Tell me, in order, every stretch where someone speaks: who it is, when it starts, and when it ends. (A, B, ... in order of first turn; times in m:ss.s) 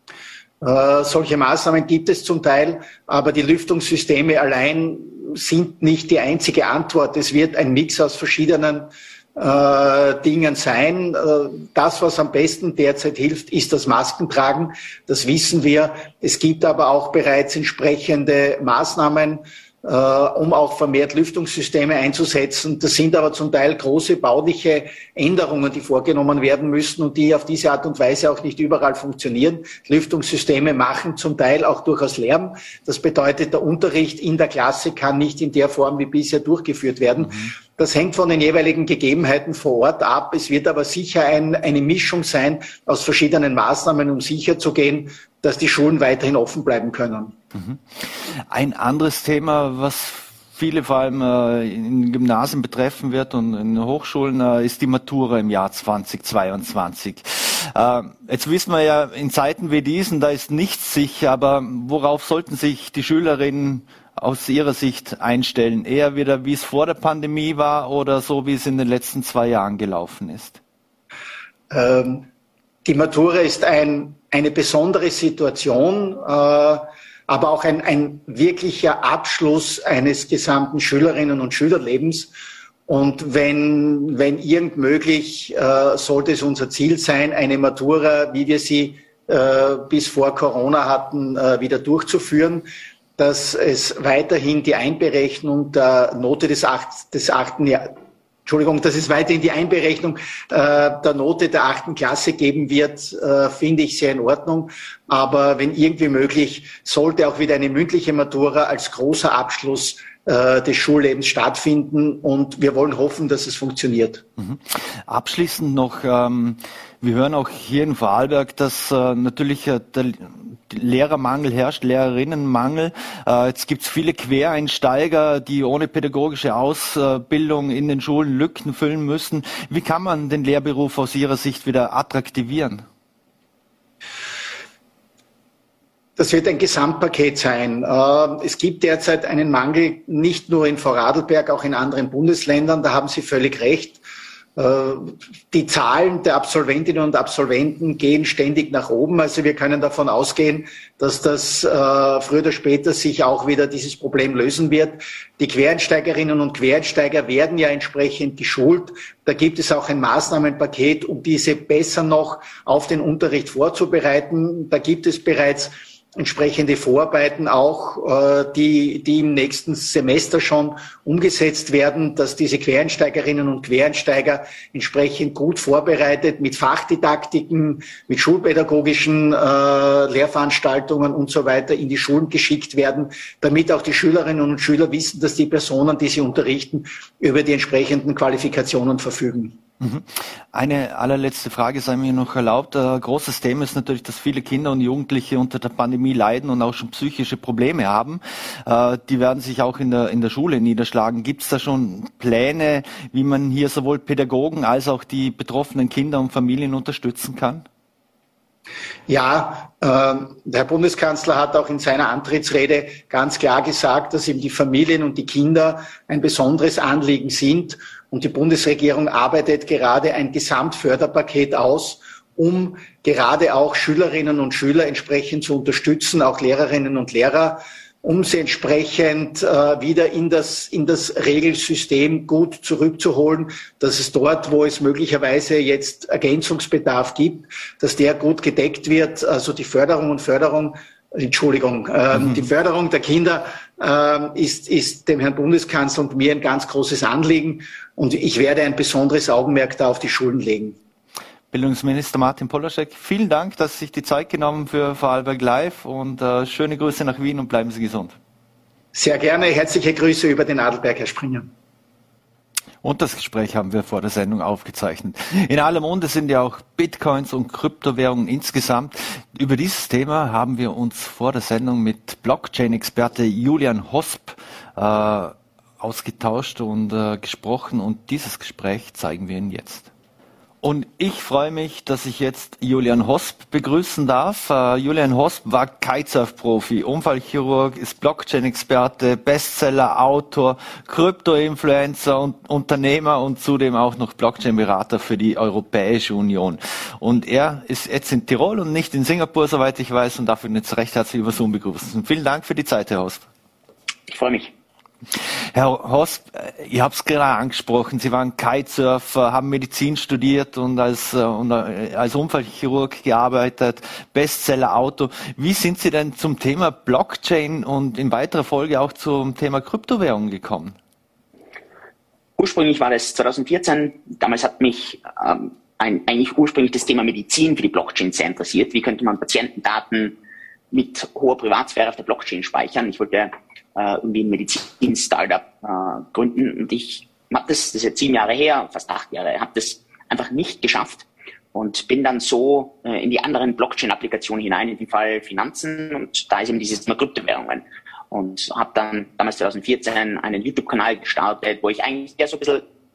0:00.6-0:47.4 A
0:47.6-1:10.6 B
1:11.7-1:12.3 A
1:12.8-1:22.3 A
1:22.9-1:54.2 A
1:54.4-2:12.8 B
2:16.2-2:24.0 A
2:24.6-3:09.6 A
3:09.8-3:27.6 B
3:29.1-4:10.8 A
4:11.5-4:18.2 B
4:18.9-4:21.5 A
4:22.8-4:39.9 B
4:40.6-5:03.2 B
5:04.1-5:04.5 C
5:05.5-5:20.8 B
5:22.4-5:30.2 C
5:30.7-5:52.6 C